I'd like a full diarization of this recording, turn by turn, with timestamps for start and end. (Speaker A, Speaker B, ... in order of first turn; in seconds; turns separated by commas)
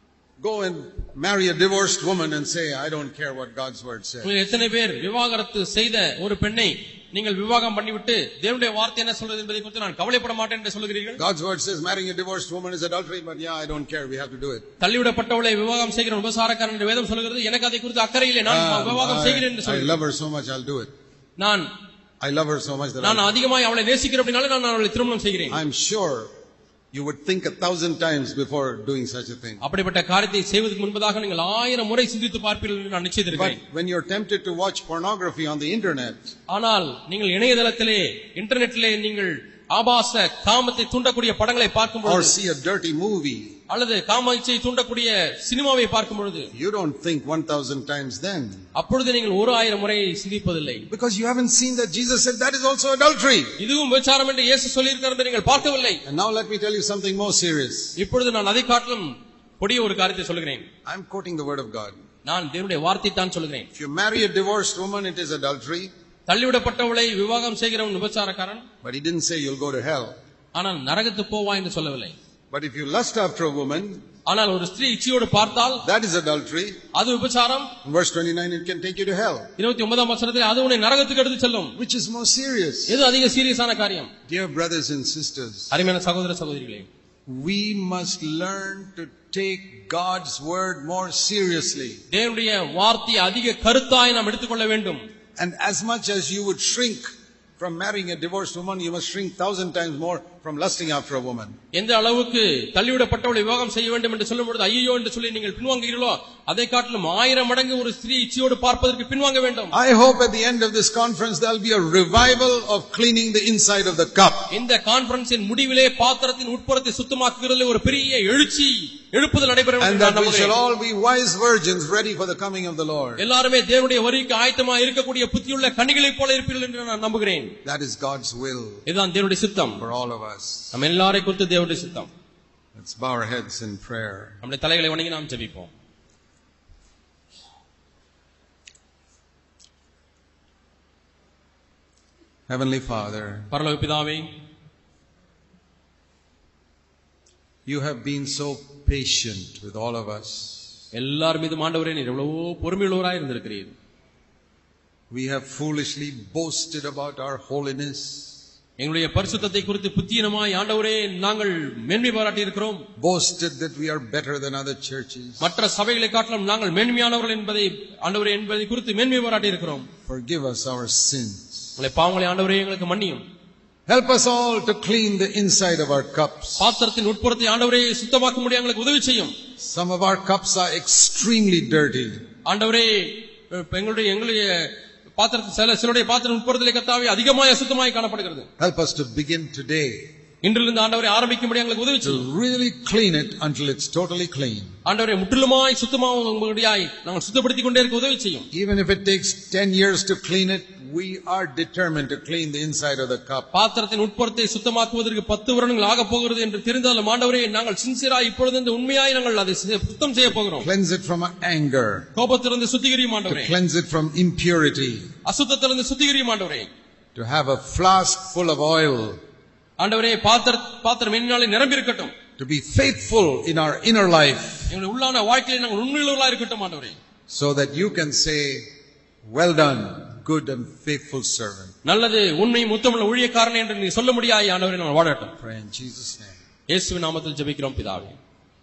Speaker A: 0.4-4.3, Speaker B: 4.2-11.2, Speaker A: 11.2-14.7, Speaker B: 14.8-20.0, Speaker A: 18.4-20.9, Speaker B: 21.4-21.6, Speaker A: 22.2-23.3, Speaker B: 23.0-25.6, Speaker A: 25.5-26.3, Speaker A: 26.9-29.6, Speaker B: 29.6-33.6, Speaker A: 33.3-36.2, Speaker B: 36.5-42.3, Speaker A: 42.0-43.5, Speaker B: 43.7-46.5, Speaker A: 46.5-48.6, Speaker B: 48.7-50.9, Speaker A: 50.9-53.6, Speaker B: 53.6-56.0, Speaker A: 56.0-57.9, Speaker B: 58.0-60.6, Speaker A: 60.9-62.0, Speaker B: 62.2-63.7, Speaker A: 63.7-65.9, Speaker B: 66.3-68.6, Speaker A: 68.8-70.2, Speaker B: 70.5-72.1, Speaker A: 72.5-74.0, Speaker B: 74.3-75.8, Speaker A: 75.8-76.8, Speaker B: 76.9-77.7, Speaker A: 77.8-79.5, Speaker B: 79.6-81.8, Speaker A: 81.8-83.0, Speaker B: 82.9-84.1, Speaker A: 84.3-85.7, Speaker B: 85.7-86.9, Speaker A: 87.3-92.0, Speaker B: 92.1-95.0, Speaker A: 95.4-101.5, Speaker B: 101.7-109.8, Speaker A: 109.7-114.5, Speaker B: 114.5-120.5, Speaker A: 119.8-123.2, Speaker B: 123.2-127.5, Speaker A: 127.6-128.8, Speaker B: 128.8-129.8, Speaker A: 129.8-130.8, Speaker B: 130.7-132.1, Speaker A: 132.7-134.4, Speaker B: 134.4-135.7, Speaker A: 142.5-143.5, Speaker B: 143.5-144.3, Speaker A: 147.7-150.8, Speaker B: 150.9-153.7, Speaker A: 155.1-158.3, Speaker B: 158.8-162.8, Speaker A: 163.0-165.5, Speaker B: 165.4-169.9, Speaker A: 170.1-171.7, Speaker B: 171.8-173.2, Speaker A: 173.9-176.7, Speaker B: 176.6-179.3, Speaker A: 179.6-182.2, Speaker B: 182.4-188.4, Speaker A: 188.6-190.1, Speaker B: 190.4-192.3, Speaker A: 192.0-194.7, Speaker B: 194.8-198.5, Speaker A: 198.5-203.5, Speaker B: 203.5-210.7, Speaker A: 210.6-212.1, Speaker B: 212.2-213.5, Speaker A: 213.3-215.1, Speaker B: 215.2-216.7, Speaker A: 217.2-219.2, Speaker B: 219.8-222.1, Speaker A: 222.4-224.7, Speaker B: 224.7-227.0, Speaker A: 227.3-228.7, Speaker A: 229.3-231.7, Speaker B: 231.8-235.3, Speaker A: 235.4-236.4, Speaker B: 236.7-238.2